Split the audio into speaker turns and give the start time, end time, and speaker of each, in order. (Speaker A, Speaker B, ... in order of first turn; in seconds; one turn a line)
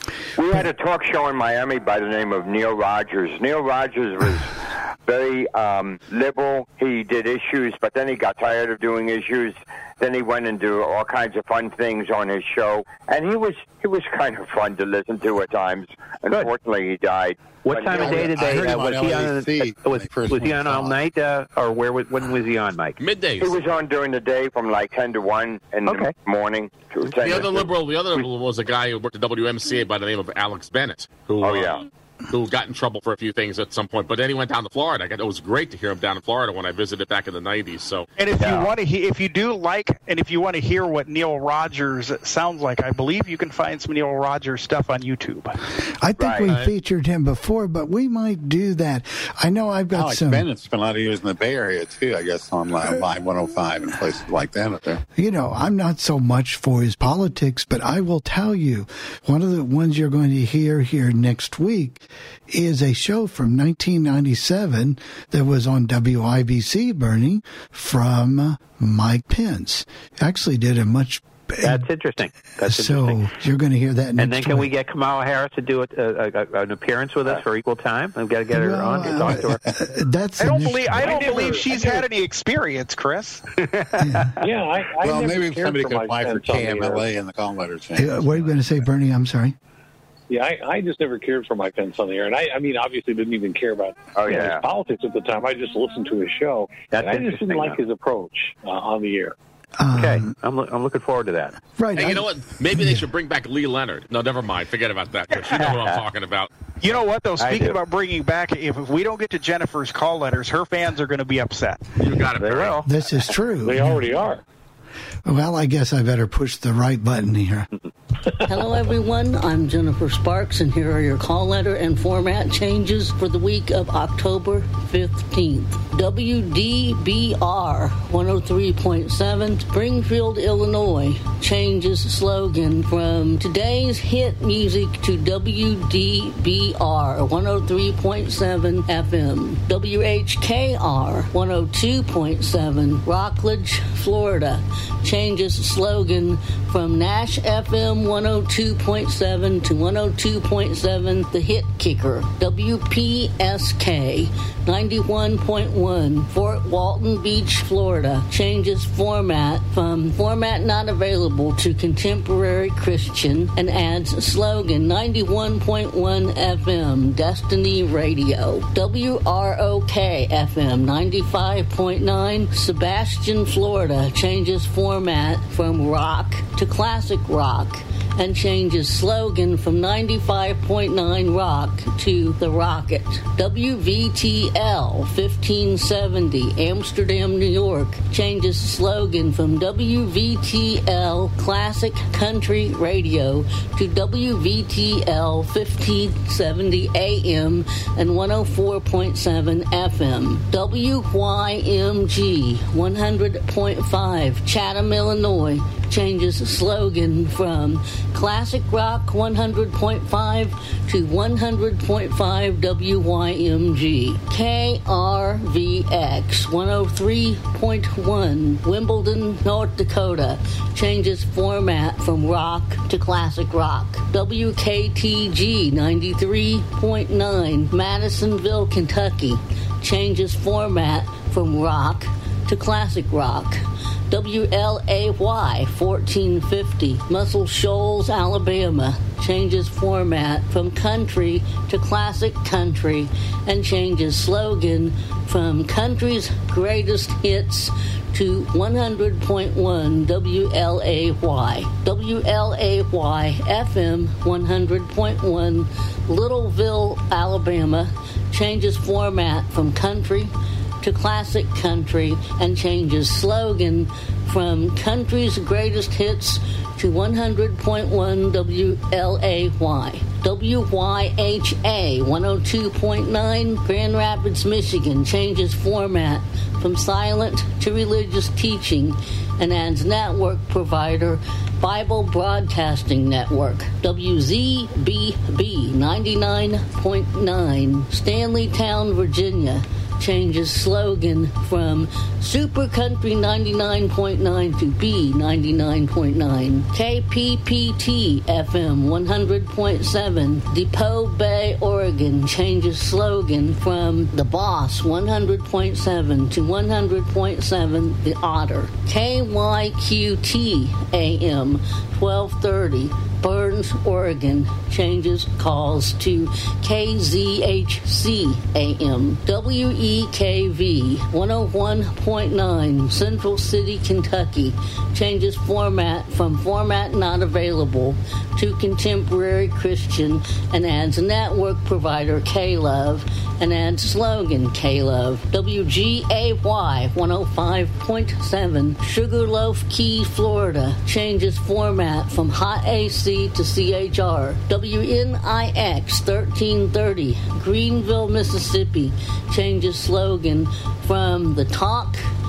Speaker A: 0.4-18.2
Speaker B: 17.6-23.0
Speaker C: 17.9-21.0
Speaker D: 23.0-23.5
Speaker A: 23.4-27.7
Speaker B: 25.9-26.1
Speaker D: 27.2-38.1
Speaker A: 31.4-31.8
Speaker E: 38.2-45.6
Speaker A: 38.4-38.7
Speaker F: 45.8-50.5
Speaker A: 46.2-46.5
Speaker C: 50.0-55.0
Speaker F: 55.2-71.9
Speaker B: 71.6-73.2
Speaker F: 72.6-74.7
Speaker B: 74.2-79.6
Speaker F: 78.5-81.6
Speaker E: 80.4-83.4
Speaker G: 81.0-81.7
Speaker B: 81.1-81.9
Speaker B: 83.6-84.3
Speaker F: 84.0-84.3
Speaker G: 84.4-87.1
Speaker C: 85.0-88.5
Speaker F: 88.0-89.6
Speaker G: 90.3-99.3
Speaker A: 94.2-94.6
Speaker B: 96.9-97.8
Speaker F: 99.8-100.3
Speaker B: 99.9-101.6
Speaker F: 101.8-103.1
Speaker D: 102.0-106.5
Speaker B: 105.5-106.0
Speaker E: 106.8-111.8
Speaker B: 107.4-107.8
Speaker D: 112.0-112.8
Speaker B: 112.3-112.9
Speaker F: 112.8-114.0
Speaker G: 113.6-114.4
Speaker F: 115.3-117.7
Speaker H: 118.5-260.3
Speaker H: 260.8-352.0